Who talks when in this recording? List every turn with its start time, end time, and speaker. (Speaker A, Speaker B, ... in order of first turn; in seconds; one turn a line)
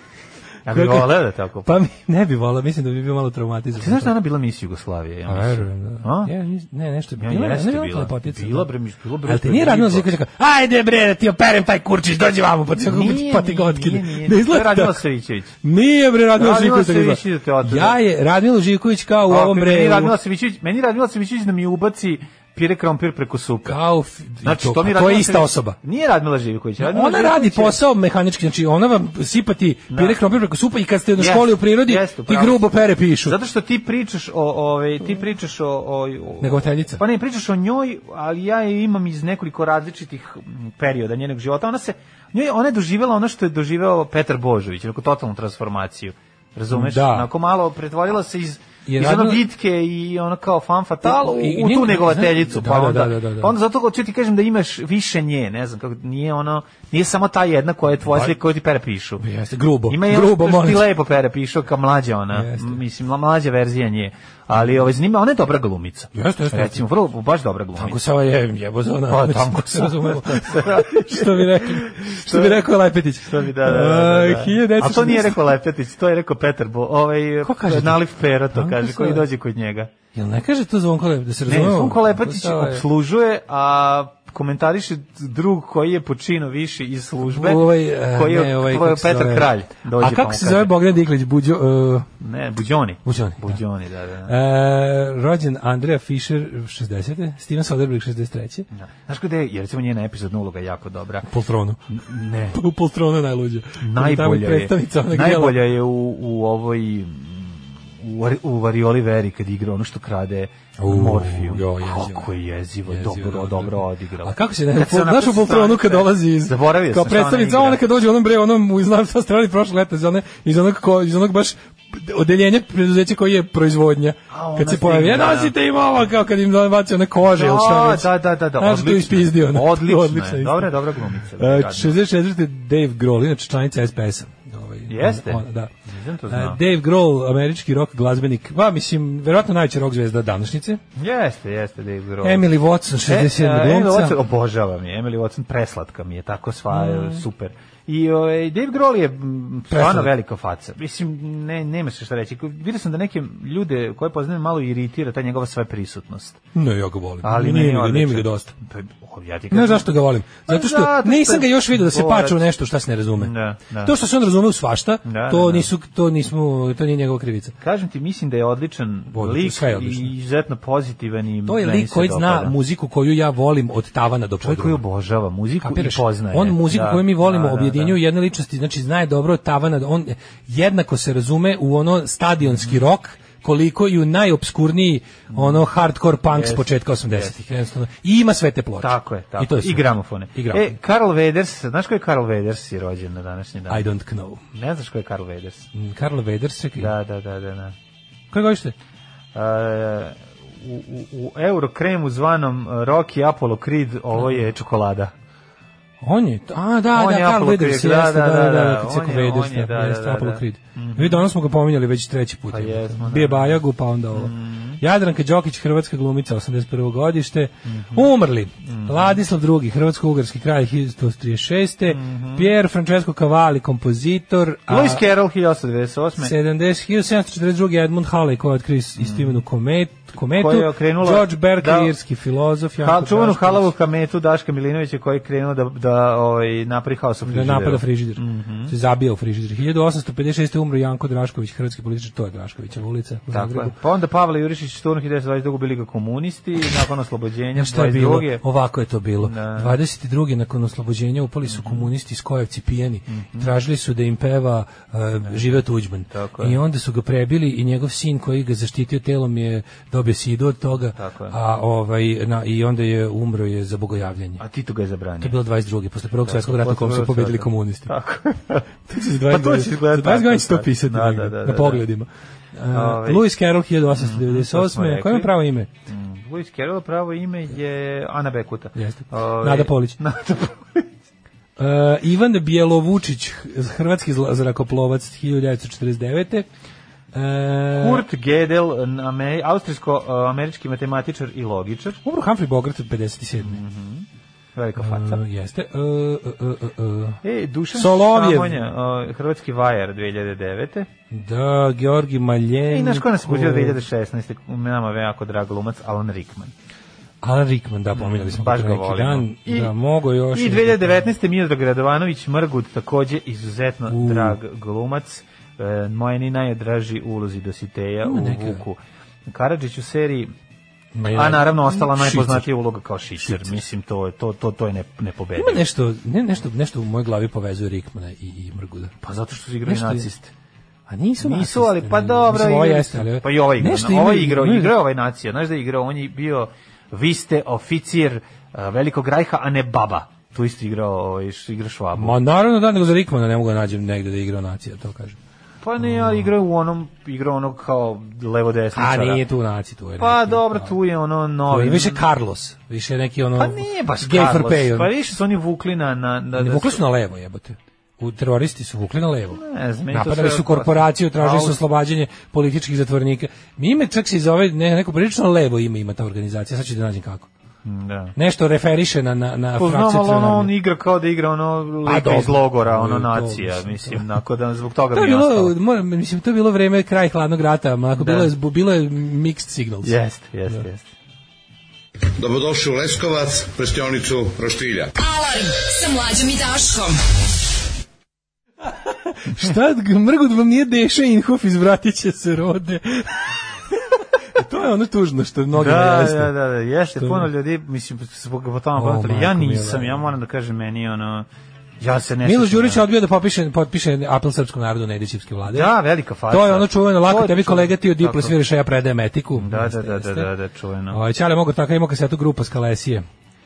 Speaker A: 0.7-1.8
Speaker B: 0.7-4.1
Speaker A: 3.8-6.3
Speaker B: 5.3-8.7
Speaker A: 7.2-10.1
Speaker B: 9.2-15.0
Speaker A: 12.8-15.6
Speaker B: 15.6-20.1
Speaker A: 16.4-18.0
Speaker A: 19.3-23.8
Speaker B: 23.7-25.8
Speaker A: 24.4-27.8
Speaker B: 26.8-33.4
Speaker A: 29.9-30.2
Speaker A: 31.2-32.7
Speaker A: 33.2-59.2
Speaker B: 36.4-37.0
Speaker B: 46.7-47.3
Speaker B: 48.9-49.4
Speaker B: 51.0-53.5
Speaker B: 59.2-60.9
Speaker A: 59.9-68.0
Speaker B: 62.3-62.8
Speaker B: 66.1-66.8
Speaker B: 67.8-75.4
Speaker A: 69.1-79.9
Speaker B: 77.4-78.0
Speaker B: 78.5-79.3
Speaker B: 80.1-82.8
Speaker A: 81.5-90.7
Speaker B: 87.3-92.1
Speaker A: 92.2-94.3
Speaker B: 93.0-93.6
Speaker B: 94.3-98.7
Speaker A: 98.7-101.3
Speaker B: 101.3-101.9
Speaker A: 101.9-102.6
Speaker B: 102.5-105.6
Speaker A: 103.8-117.8
Speaker B: 110.8-112.3
Speaker B: 112.9-130.7
Speaker A: 124.3-125.5
Speaker A: 127.3-132.0
Speaker B: 131.4-135.7
Speaker A: 134.9-136.6
Speaker B: 136.3-140.8
Speaker A: 141.0-142.5
Speaker B: 142.2-144.2
Speaker A: 143.1-156.4
Speaker B: 146.7-147.2
Speaker B: 149.7-150.1
Speaker B: 156.5-158.5
Speaker A: 157.2-162.5
Speaker B: 159.5-167.6
Speaker A: 163.2-163.9
Speaker A: 165.1-165.7
Speaker A: 167.6-172.6
Speaker B: 169.1-170.1
Speaker B: 171.5-174.8
Speaker A: 174.4-178.0
Speaker B: 175.6-190.8
Speaker A: 185.3-185.6
Speaker A: 186.3-187.3
Speaker A: 188.8-193.9
Speaker B: 193.7-194.4
Speaker A: 194.5-195.7
Speaker B: 195.7-196.9
Speaker A: 196.8-197.8
Speaker B: 198.3-198.8
Speaker A: 199.3-205.1
Speaker B: 206.0-225.0
Speaker A: 206.9-211.2
Speaker A: 212.5-213.6
Speaker A: 214.1-214.8
Speaker A: 217.7-218.1
Speaker A: 218.6-219.2
Speaker A: 221.9-222.5
Speaker A: 224.7-226.3
Speaker B: 226.2-233.7
Speaker A: 229.0-229.4
Speaker A: 230.3-231.9
Speaker A: 232.8-238.7
Speaker B: 237.3-243.8
Speaker A: 243.3-248.4
Speaker B: 247.6-264.4
Speaker A: 249.2-249.8
Speaker A: 251.5-251.9
Speaker A: 253.1-253.5
Speaker A: 255.2-256.6
Speaker A: 260.9-261.4
Speaker A: 264.4-265.4
Speaker B: 265.2-267.9
Speaker A: 266.2-271.9
Speaker B: 268.9-275.7
Speaker A: 272.7-273.3
Speaker A: 273.9-275.3
Speaker A: 275.9-280.9
Speaker B: 278.8-280.0
Speaker B: 281.6-286.5
Speaker B: 287.1-288.1
Speaker A: 287.7-292.0
Speaker B: 292.0-293.6
Speaker A: 293.4-295.2
Speaker B: 294.8-297.2
Speaker A: 297.2-300.9
Speaker B: 297.8-298.6
Speaker B: 301.1-303.8
Speaker A: 302.7-306.5
Speaker B: 307.2-310.9
Speaker A: 307.9-309.7
Speaker A: 310.3-320.3
Speaker B: 313.9-314.4
Speaker B: 318.1-318.6
Speaker B: 320.9-322.5
Speaker A: 321.1-325.6
Speaker B: 323.2-323.6
Speaker B: 325.4-328.9
Speaker A: 329.0-330.3
Speaker B: 329.7-330.1
Speaker B: 330.9-334.8
Speaker A: 331.2-342.2
Speaker B: 342.0-345.2
Speaker A: 345.6-349.2
Speaker B: 345.9-346.3
Speaker B: 348.8-350.8
Speaker A: 350.0-352.1
Speaker B: 351.5-354.9
Speaker A: 353.4-356.8
Speaker B: 356.4-367.3
Speaker A: 359.4-361.6
Speaker A: 367.6-368.1
Speaker B: 368.2-370.5
Speaker A: 369.6-375.6
Speaker B: 371.9-374.1
Speaker B: 374.9-379.9
Speaker A: 378.0-378.3
Speaker A: 379.8-380.9
Speaker C: 382.2-384.9
Speaker D: 385.0-387.0
Speaker B: 389.1-396.3
Speaker A: 395.5-401.3
Speaker B: 396.9-397.3
Speaker B: 398.8-400.0
Speaker A: 401.8-402.8
Speaker B: 402.2-405.7
Speaker A: 405.5-408.3
Speaker B: 406.3-410.3
Speaker A: 409.4-411.0
Speaker B: 410.9-413.0